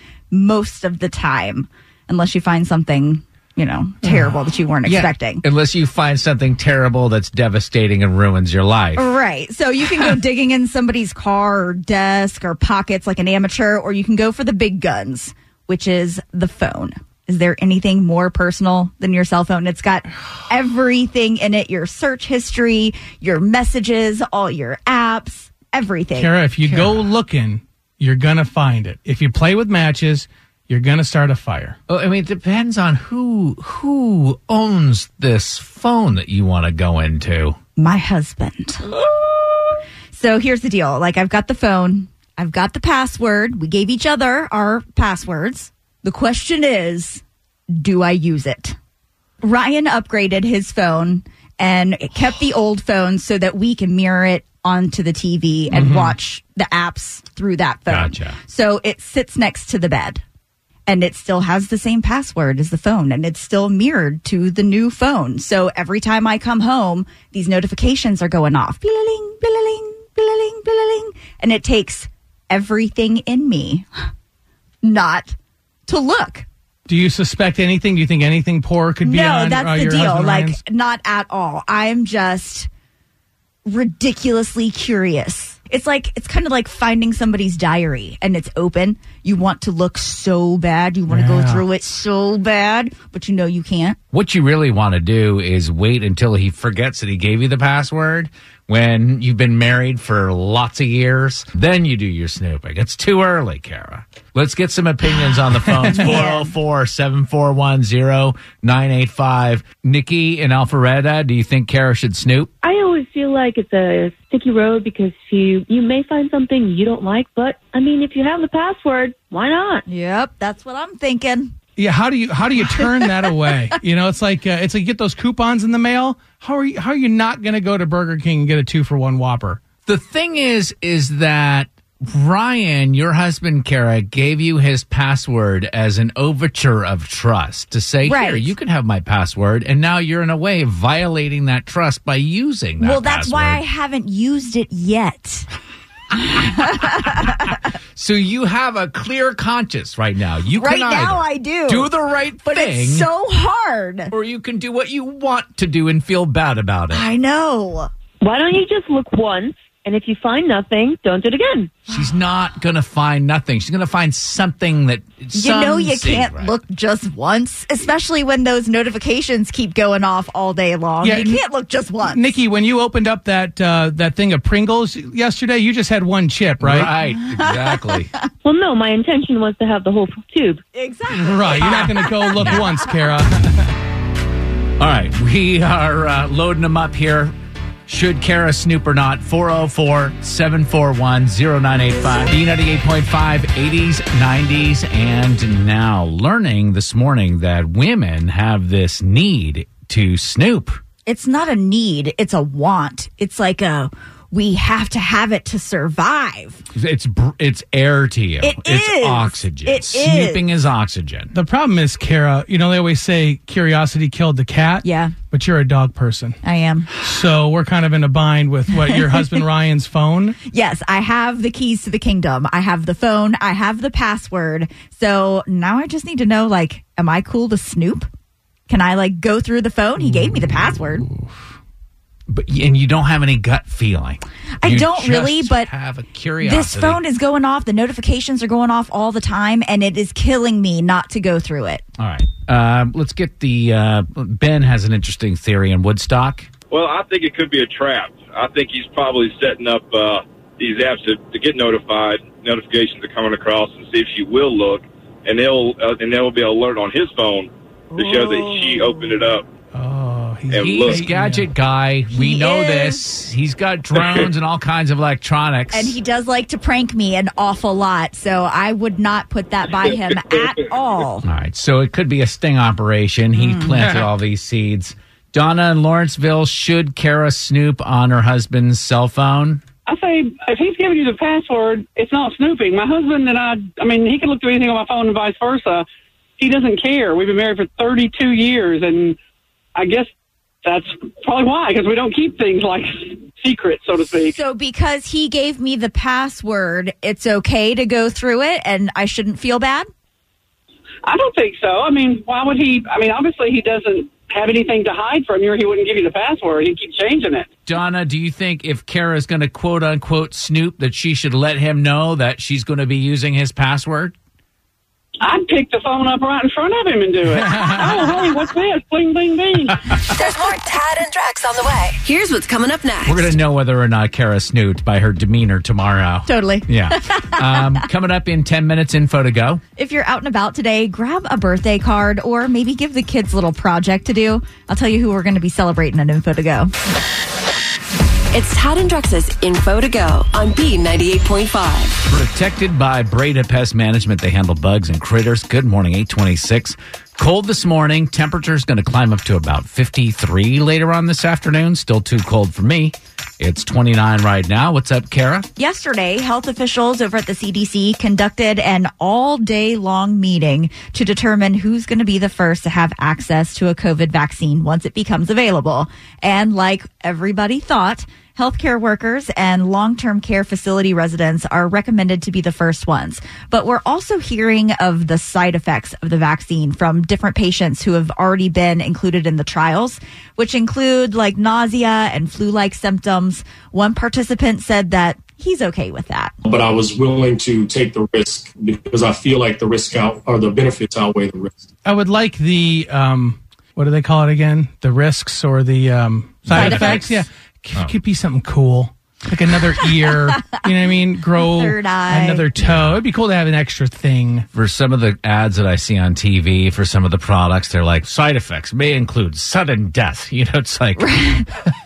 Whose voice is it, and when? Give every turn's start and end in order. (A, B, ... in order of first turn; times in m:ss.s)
0:00.3-0:05.4 A
0:04.8-0:09.1 B
0:09.0-0:26.3 A
0:26.2-0:31.8 C
0:26.6-0:27.0 B
0:31.9-0:37.6 B
0:37.8-0:38.9 A
0:40.1-0:48.8 A
0:49.4-1:00.2 A
0:55.7-0:56.2 C
0:57.9-0:58.4 B
1:00.9-1:13.9 A
1:14.8-1:15.3 A
1:15.9-1:16.4 A
1:16.9-1:20.6 C
1:19.0-1:22.7 A
1:23.6-1:34.0 A
1:31.1-1:31.6 C
1:34.1-1:52.5 B
1:45.9-1:46.2 C
1:45.9-1:46.5 A
1:52.6-1:59.8 D
1:59.9-2:01.5 A
2:01.8-2:09.6 C
2:02.7-2:03.3 A
2:09.8-2:23.6 B
2:18.0-2:18.5 A
2:22.8-2:25.5 A
2:26.4-2:27.5 A
2:28.0-2:33.1 B
2:30.5-2:31.9 A
2:32.5-2:34.1 A
2:34.1-2:37.0 B
2:36.9-2:37.9 A
2:38.2-2:41.8 D
2:41.9-2:46.5 B
2:45.3-2:52.3 A
2:51.0-2:51.4 C
2:52.0-2:56.9 C
2:56.6-2:58.1 B
2:57.3-2:58.0 A
2:58.4-3:00.6 D
3:00.7-3:02.6 A
3:01.1-3:03.7 C
3:02.4-3:02.6 B
3:04.8-3:07.3 B
3:07.9-3:20.8 B
3:21.0-3:26.6 A
3:26.7-3:31.3 B
3:28.4-3:30.4 A
3:31.3-3:36.4 C
3:34.8-3:35.1 A
3:36.4-3:36.9 A
3:37.0-3:40.4 C
3:38.9-3:39.1 A
3:40.5-3:48.1 A
3:48.7-3:51.0 A
3:50.1-3:50.5 C
3:52.3-3:57.0 B
3:54.6-3:55.7 A
3:56.4-4:01.8 A
4:02.0-4:06.5 B
4:06.7-4:19.5 E
4:17.9-4:19.1 A
4:19.7-4:21.5 C
4:20.5-4:21.0 E
4:20.5-4:26.0 B
4:22.1-4:23.0 A
4:25.7-4:31.2 A
4:31.2-4:39.6 B
4:33.4-4:33.8 A
4:39.9-4:45.8 F
4:46.4-4:49.2 F
4:49.8-4:50.1 F
4:50.6-4:54.3 F
4:54.2-4:59.9 A
5:01.0-5:07.5 F
5:07.6-5:14.1 B
5:15.2-5:19.8 F
5:17.4-5:17.9 C
5:20.0-5:23.4 G
5:23.0-5:29.6 B
5:26.2-5:27.8 A
5:29.8-5:36.7 A
5:38.3-5:42.0 G
5:42.1-5:55.5 B
5:55.6-6:26.3 A
6:26.4-6:31.5 H
6:31.8-6:44.5 C
6:36.5-6:37.1 B
6:36.5-6:37.2 A
6:41.4-6:42.5 A
6:42.6-6:43.0 B
6:44.5-6:51.1 B
6:51.0-6:51.5 A